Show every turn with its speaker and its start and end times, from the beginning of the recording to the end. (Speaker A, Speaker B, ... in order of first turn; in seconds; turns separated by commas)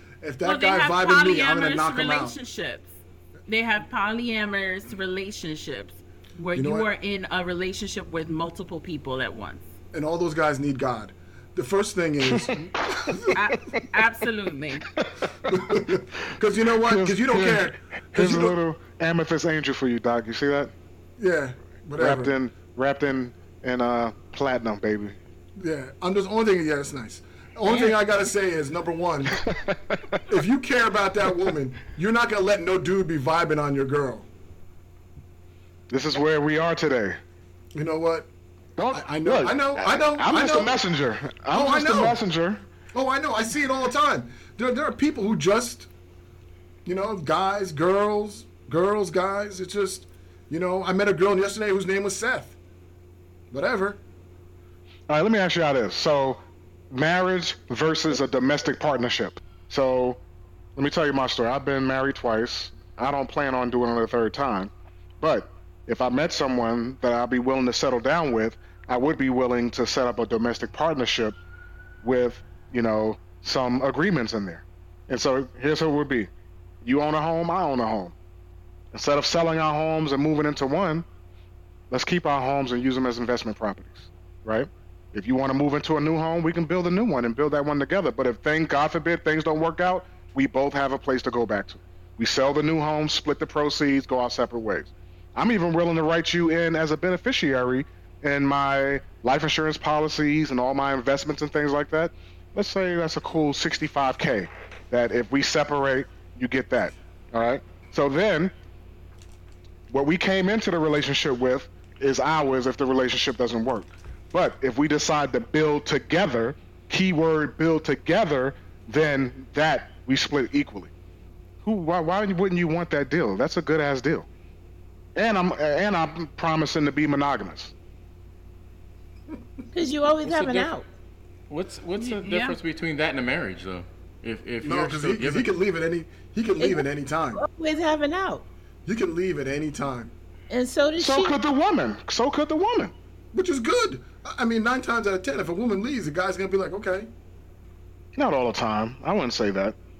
Speaker A: 0.2-2.3, Speaker B: 0.4-2.9, Speaker B: 3.5-9.7, Speaker A: 6.5-6.9, Speaker A: 9.9-13.4, Speaker C: 12.3-13.1, Speaker B: 13.3-14.8, Speaker C: 14.9-15.9, Speaker A: 15.5-18.5, Speaker C: 16.8-20.7, Speaker A: 21.2-22.3, Speaker C: 22.0-25.2, Speaker A: 25.6-29.4, Speaker C: 29.3-30.2, Speaker A: 30.3-34.3, Speaker C: 35.9-37.2, Speaker A: 37.7-38.3, Speaker C: 38.8-42.7, Speaker A: 38.9-40.7, Speaker A: 41.5-42.2, Speaker A: 42.9-45.9, Speaker A: 46.8-52.6, Speaker A: 53.5-54.0, Speaker C: 55.1-60.2, Speaker C: 60.8-71.4, Speaker C: 72.0-76.3, Speaker C: 76.8-78.1, Speaker C: 78.9-81.0, Speaker C: 81.9-108.5, Speaker C: 109.9-120.9, Speaker C: 121.6-124.3, Speaker C: 125.2-127.7, Speaker D: 129.7-130.8, Speaker E: 130.2-130.7, Speaker E: 131.5-135.5, Speaker B: 132.0-132.6, Speaker A: 134.6-137.4, Speaker D: 136.6-138.4, Speaker A: 138.8-140.1, Speaker D: 140.5-141.3, Speaker C: 141.0-142.9, Speaker A: 143.3-147.1, Speaker C: 148.2-149.8